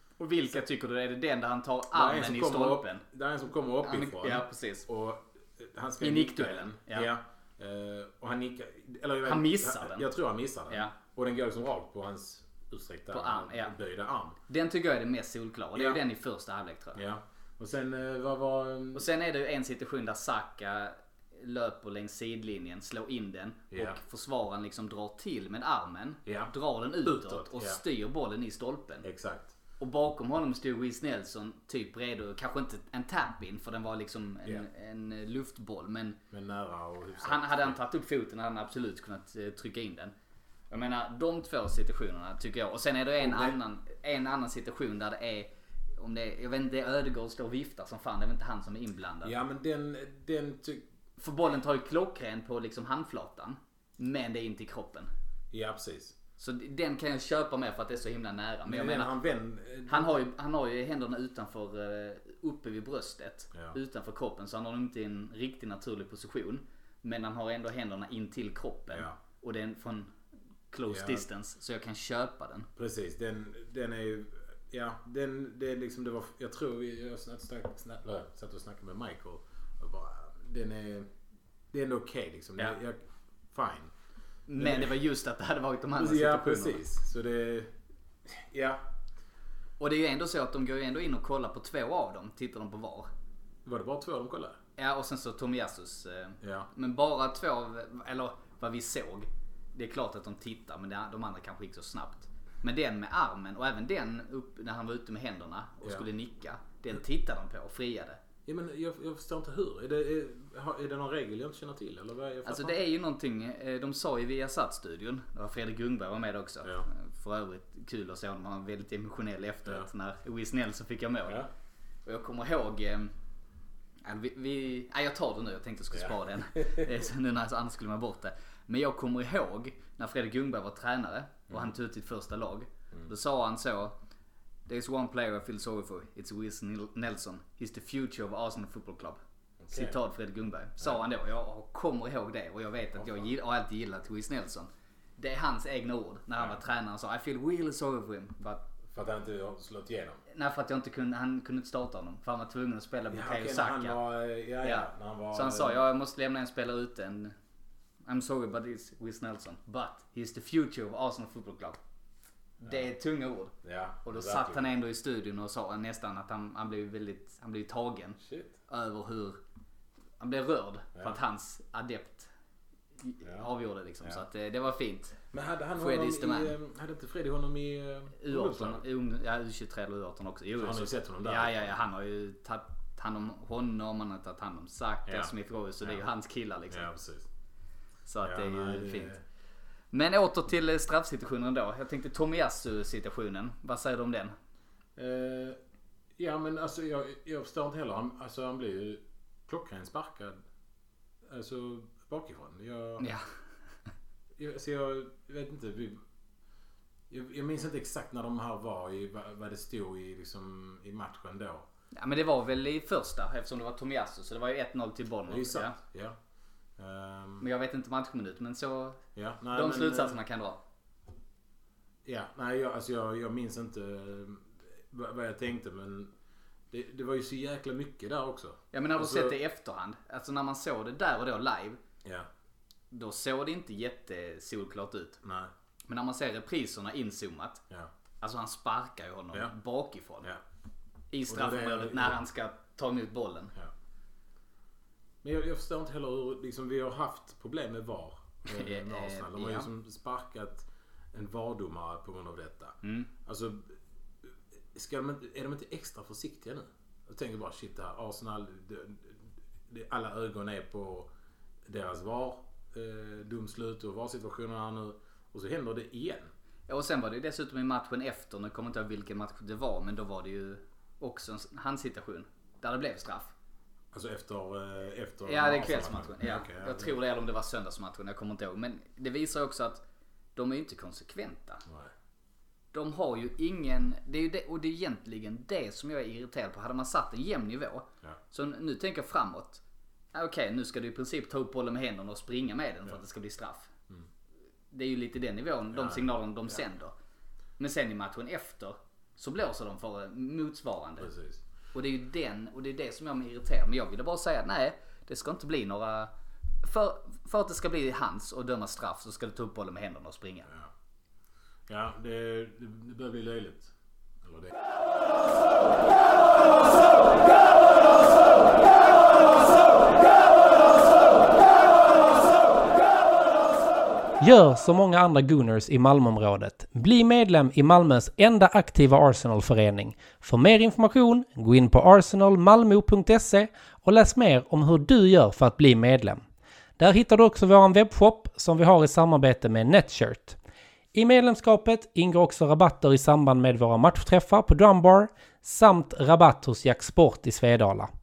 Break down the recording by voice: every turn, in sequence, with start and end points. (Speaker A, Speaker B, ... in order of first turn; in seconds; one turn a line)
Speaker A: 0.2-3.0
Speaker B: 1.9-14.4
Speaker A: 3.8-4.8
Speaker A: 6.0-7.1
Speaker A: 9.2-10.1
Speaker A: 10.7-10.9
Speaker A: 13.1-13.7
Speaker A: 14.5-17.0
Speaker B: 15.7-16.0
Speaker B: 16.9-19.1
Speaker A: 18.9-29.1
Speaker B: 23.7-24.0
Speaker B: 26.2-27.8
Speaker B: 29.0-29.5
Speaker A: 29.8-36.2
Speaker B: 36.3-37.8
Speaker A: 37.2-40.1
Speaker A: 40.7-49.3
Speaker B: 43.2-43.6
Speaker B: 49.2-50.8
Speaker A: 51.2-55.1
Speaker B: 55.5-56.1
Speaker A: 56.4-59.1
Speaker B: 58.6-60.2
Speaker A: 59.9-70.1
Speaker B: 68.9-69.2
Speaker A: 70.7-72.7
Speaker B: 70.9-71.2
Speaker B: 72.8-81.1
Speaker B: 81.7-83.9
Speaker A: 84.5-86.8
Speaker B: 84.6-84.9
Speaker B: 86.0-87.7
Speaker B: 88.2-88.8
Speaker A: 89.8-93.1
Speaker B: 93.6-94.6
Speaker A: 94.8-108.2
Speaker B: 96.4-96.7
Speaker B: 108.5-112.8
Speaker A: 112.4-121.4
Speaker A: 122.0-123.1
Speaker A: 124.0-133.9
Speaker B: 125.9-126.9
Speaker A: 134.7-139.2
Speaker B: 139.6-140.0
Speaker A: 139.7-148.6
Speaker B: 143.0-143.3
Speaker B: 148.9-150.2
Speaker A: 150.3-154.0
Speaker B: 153.1-155.8
Speaker A: 154.6-157.3
Speaker A: 158.1-161.8
Speaker B: 162.6-162.9
Speaker A: 162.6-163.5
Speaker B: 163.6-164.7
Speaker A: 164.0-169.4
Speaker B: 168.2-168.5
Speaker A: 170.2-172.3
Speaker A: 173.0-175.2
Speaker B: 173.2-173.5
Speaker B: 175.3-178.8
Speaker A: 175.8-176.5
Speaker A: 178.2-186.9
Speaker B: 180.6-181.8
Speaker B: 185.1-186.0
Speaker B: 186.7-187.3
Speaker A: 188.1-189.2
Speaker B: 188.2-189.2
Speaker A: 189.9-194.3
Speaker B: 194.9-195.6
Speaker B: 196.2-200.4
Speaker B: 201.3-203.1
Speaker A: 203.0-203.2
Speaker B: 204.4-206.0
Speaker B: 207.1-211.7
Speaker A: 211.9-215.8
Speaker B: 215.3-216.2
Speaker B: 216.8-217.5
Speaker A: 217.4-220.6
Speaker B: 219.1-220.2
Speaker B: 222.0-226.1
Speaker B: 226.7-229.3
Speaker A: 228.7-231.8
Speaker A: 232.9-235.2
Speaker B: 235.2-235.5
Speaker A: 235.9-237.6
Speaker A: 238.2-240.3
Speaker A: 241.1-243.5
Speaker B: 241.3-242.2
Speaker B: 245.2-261.1
Speaker A: 248.4-249.7
Speaker A: 252.8-253.1
Speaker B: 261.6-266.3
Speaker A: 266.7-273.3
Speaker B: 273.9-276.9
Speaker A: 275.2-279.8
Speaker A: 280.3-281.6
Speaker B: 281.6-281.9
Speaker A: 282.7-289.6
Speaker A: 290.1-293.7
Speaker A: 294.7-296.9
Speaker B: 295.7-296.6
Speaker A: 297.6-301.1
Speaker B: 301.0-301.4
Speaker A: 301.7-306.1
Speaker A: 306.6-310.5
Speaker B: 311.7-314.5
Speaker C: 324.2-336.2
Speaker C: 336.8-340.4
Speaker C: 340.9-347.9